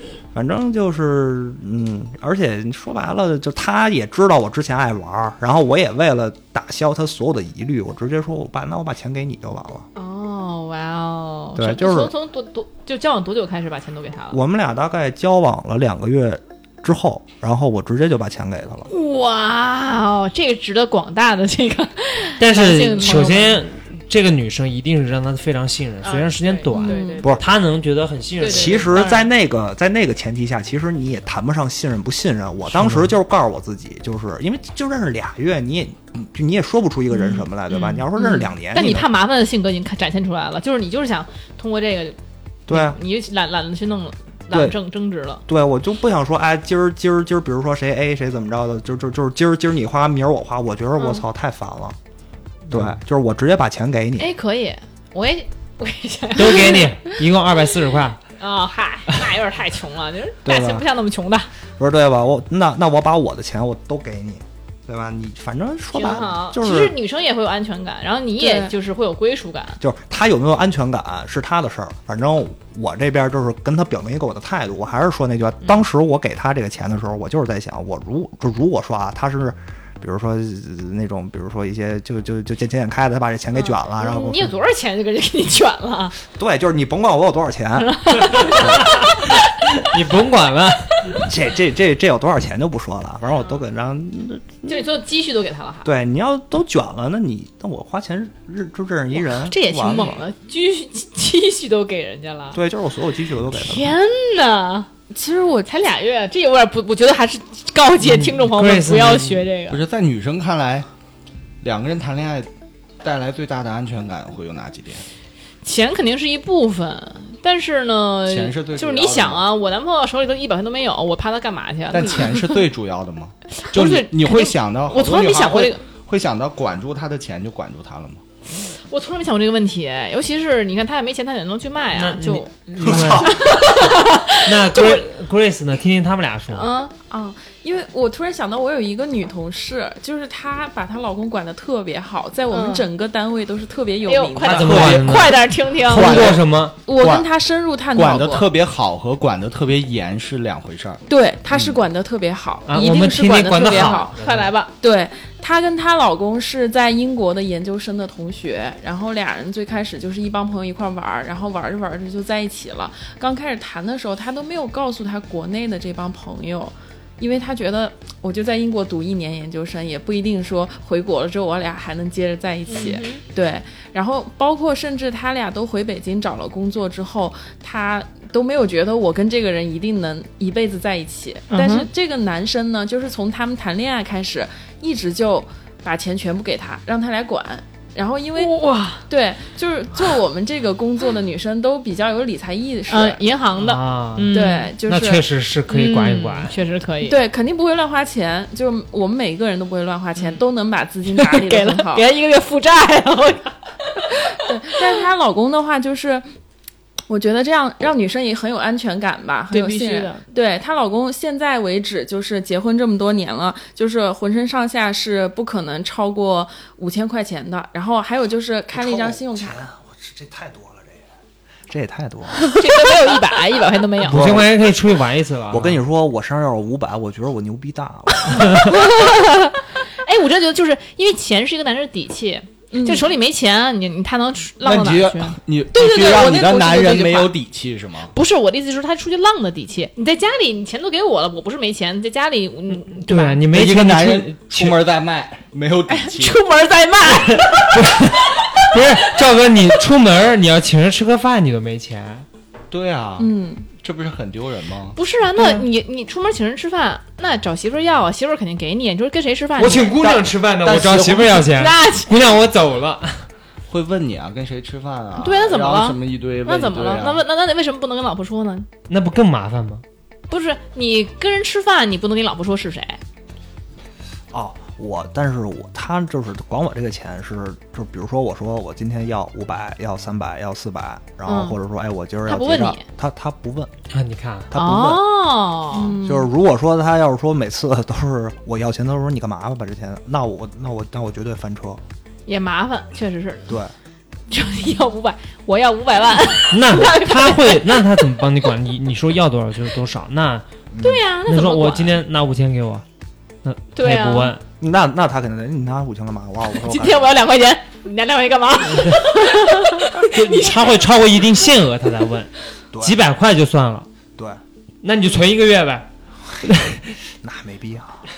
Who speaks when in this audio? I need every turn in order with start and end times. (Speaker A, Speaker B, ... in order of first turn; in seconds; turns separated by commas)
Speaker A: 0.3-9.9, Speaker B: 9.9-14.4, Speaker A: 11.6-12.1, Speaker A: 14.3-18.9, Speaker B: 18.9-23.6, Speaker C: 22.4-28.9, Speaker B: 26.0-27.3, Speaker D: 26.7-27.2, Speaker B: 28.4-29.3, Speaker A: 28.4-39.1, Speaker C: 32.7-33.1, Speaker B: 37.1-42.2, Speaker A: 42.7-43.0, Speaker B: 42.7-45.4, Speaker A: 44.5-44.8, Speaker A: 45.5-52.0, Speaker B: 51.0-51.2, Speaker C: 52.7-53.0, Speaker A: 52.7-54.3, Speaker B: 54.2-56.9, Speaker C: 56.3-58.2, Speaker B: 58.4-61.5, Speaker A: 60.4-60.9, Speaker A: 61.8-66.9, Speaker B: 65.9-69.8, Speaker D: 68.4-68.7, Speaker A: 69.8-84.5, Speaker B: 83.5-86.2, Speaker A: 86.2-88.9, Speaker B: 87.8-89.4, Speaker C: 88.4-91.1, Speaker A: 91.2-94.9, Speaker B: 94.7-95.9, Speaker A: 95.8-100.2, Speaker B: 99.1-102.6, Speaker A: 102.5-103.9, Speaker B: 103.5-104.9, Speaker D: 105.1-105.7, Speaker B: 105.6-109.8, Speaker C: 108.0-109.5, Speaker E: 109.7-110.8, Speaker E: 111.6-112.5, Speaker E: 113.0-115.0, Speaker B: 115.6-122.6, Speaker E: 118.3-119.5, Speaker E: 121.9-128.2, Speaker B: 123.6-125.8, Speaker B: 128.6-135.0, Speaker C: 131.9-136.7, Speaker A: 132.8-133.4, Speaker B: 136.5-136.9, Speaker D: 137.1-144.8, Speaker B: 142.5-142.9, Speaker B: 144.0-146.3, Speaker C: 144.4-146.8, Speaker E: 144.5-147.3, Speaker D: 146.8-148.5, Speaker E: 147.9-151.0, Speaker D: 151.1-154.1, Speaker C: 152.7-154.5, Speaker B: 153.6-154.7, Speaker D: 154.8-188.5, Speaker B: 172.7-173.2, Speaker B: 181.5-181.9, Speaker B: 188.3-189.0, Speaker D: 189.1-193.2, Speaker B: 192.9-194.7, Speaker C: 193.6-196.6, Speaker D: 194.3-195.3, Speaker B: 195.7-197.2, Speaker D: 197.0-202.0, Speaker B: 200.2-200.4, Speaker B: 201.1-204.2, Speaker D: 204.3-206.3, Speaker D: 207.1-219.6, Speaker B: 209.5-210.2, Speaker A: 218.7-221.0, Speaker A: 221.7-222.5, Speaker B: 222.5-224.4, Speaker C: 224.0-225.8, Speaker A: 224.1-224.5, Speaker A: 225.5-228.8, Speaker B: 228.3-237.3, Speaker D: 232.7-233.1, Speaker E: 234.6-238.1, Speaker B: 238.1-243.4, Speaker C: 242.7-244.8, Speaker E: 243.5-246.4, Speaker B: 245.9-249.2, Speaker C: 247.2-252.2, Speaker E: 252.7-255.0, Speaker D: 253.2-253.7, Speaker B: 254.9-260.1, Speaker D: 255.4-255.6, Speaker C: 259.6-263.3, Speaker E: 260.0-261.5, Speaker B: 261.5-262.3, Speaker E: 263.7-267.2, Speaker B: 265.2-268.7, Speaker C: 268.9-269.8, Speaker B: 270.3-273.0, Speaker A: 274.3-283.7, Speaker B: 281.3-281.6, Speaker B: 282.3-282.8, Speaker C: 283.9-284.5, Speaker A: 284.5-285.0, Speaker B: 284.5-286.0, Speaker D: 285.7-286.3, Speaker A: 286.0-291.8, Speaker B: 292.3-293.6, Speaker A: 293.5-293.7, Speaker B: 294.3-298.1, Speaker C: 296.5-300.5, Speaker A: 300.7-301.0, Speaker B: 300.8-302.0, Speaker C: 301.2-302.8, Speaker C: 303.4-304.4, Speaker B: 303.7-304.3, Speaker A: 304.6-307.1, Speaker B: 306.6-310.6, Speaker C: 308.7-309.0, Speaker C: 309.9-313.9, Speaker A: 312.7-313.0, Speaker A: 314.1-314.4, Speaker C: 314.8-315.9, Speaker C: 316.4-316.9, Speaker A: 317.2-318.0